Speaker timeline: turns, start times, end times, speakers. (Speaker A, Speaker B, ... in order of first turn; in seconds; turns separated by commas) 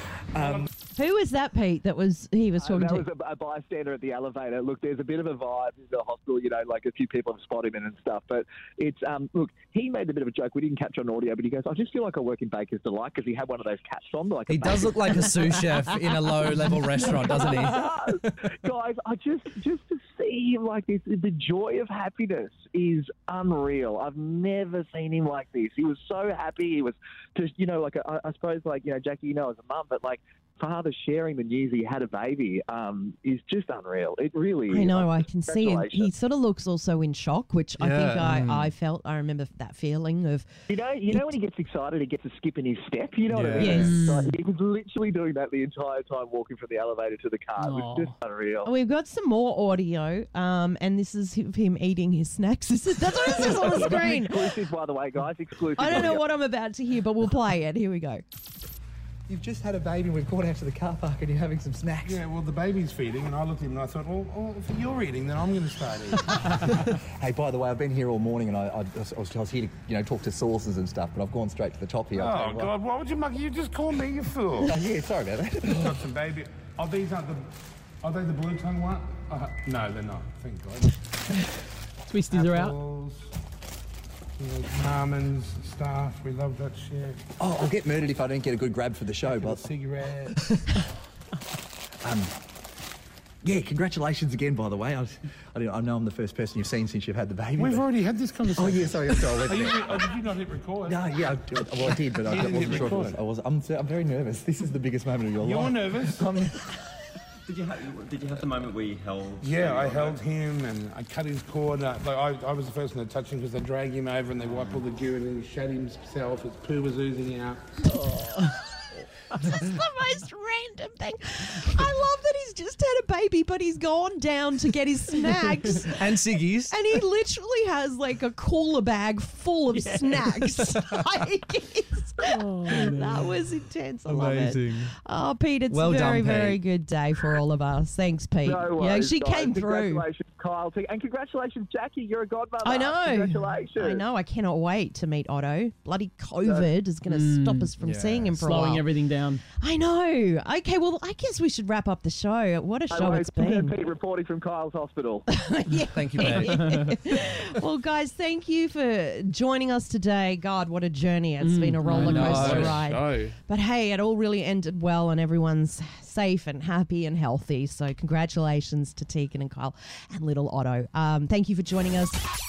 Speaker A: 0.3-0.7, Speaker B: 0.4-0.7, Speaker C: 0.9-3.0, Speaker D: 2.6-15.8, Speaker E: 14.5-17.8, Speaker D: 16.9-36.1, Speaker C: 34.7-40.5, Speaker A: 37.8-38.3, Speaker D: 40.7-48.7, Speaker A: 43.3-43.9, Speaker C: 43.6-44.0, Speaker F: 43.8-44.3, Speaker F: 47.6-48.1, Speaker C: 48.6-54.4, Speaker D: 53.2-56.2, Speaker C: 55.8-58.2, Speaker A: 59.3-62.2, Speaker B: 62.0-66.7, Speaker A: 66.5-72.7, Speaker B: 72.2-74.7, Speaker A: 74.7-76.0, Speaker B: 75.7-77.5, Speaker B: 78.0-81.0, Speaker F: 82.1-82.8, Speaker B: 82.3-83.3, Speaker B: 84.4-87.2, Speaker A: 87.4-89.7, Speaker B: 89.3-90.4, Speaker A: 92.0-92.3, Speaker A: 93.4-97.9, Speaker B: 97.6-101.0, Speaker A: 98.5-100.0, Speaker A: 100.9-106.6, Speaker B: 101.7-103.2, Speaker B: 105.4-106.3, Speaker G: 107.5-110.2, Speaker B: 109.4-117.6, Speaker G: 114.5-114.8, Speaker C: 117.9-118.8, Speaker C: 119.3-140.0, Speaker E: 125.9-126.7, Speaker E: 132.6-133.3, Speaker E: 134.1-134.9, Speaker E: 135.7-136.6, Speaker D: 138.4-144.1, Speaker C: 142.6-148.9, Speaker F: 147.1-147.7, Speaker E: 147.8-148.3, Speaker F: 148.3-149.4, Speaker C: 149.6-153.8, Speaker D: 152.9-155.3, Speaker C: 155.3-172.2, Speaker E: 155.9-156.7, Speaker F: 156.3-156.9, Speaker F: 161.4-162.7, Speaker E: 161.9-162.8